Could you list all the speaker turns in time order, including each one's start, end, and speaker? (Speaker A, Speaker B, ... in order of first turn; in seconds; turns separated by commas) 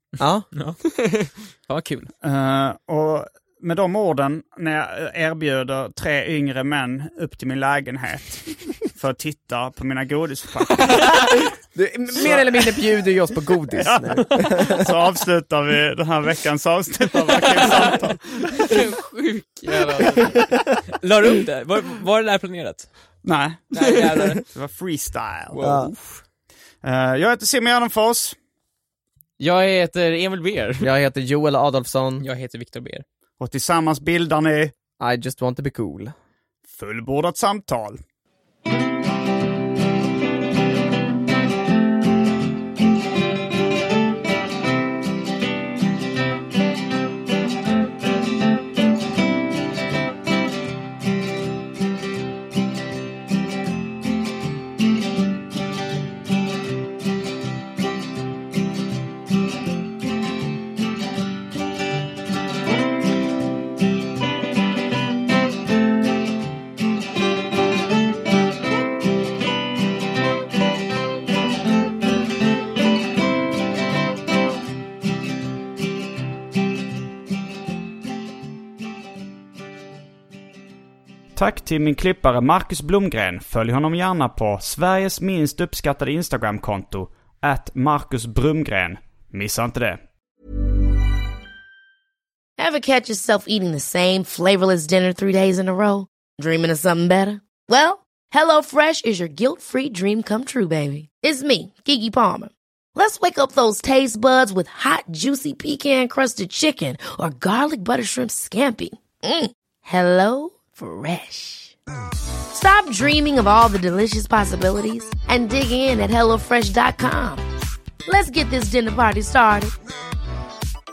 Speaker A: 0.2-0.5, Speaker B: 0.5-2.1, Speaker C: 2.2-11.2, Speaker A: 11.7-14.9, Speaker C: 12.2-12.8, Speaker C: 13.8-18.3, Speaker D: 17.6-18.0, Speaker D: 18.5-20.5, Speaker B: 21.0-22.9, Speaker C: 23.2-23.7, Speaker B: 23.7-24.4, Speaker C: 24.5-25.6, Speaker B: 25.5-26.2, Speaker A: 25.6-25.9, Speaker C: 26.8-28.4, Speaker D: 29.4-30.9, Speaker A: 30.8-32.2, Speaker B: 32.2-33.0, Speaker C: 33.4-34.7, Speaker A: 35.0-36.1, Speaker C: 36.7-38.0, Speaker C: 81.3-90.0, Speaker E: 92.6-111.8, Speaker E: 112.5-117.4, Speaker E: 118.1-119.7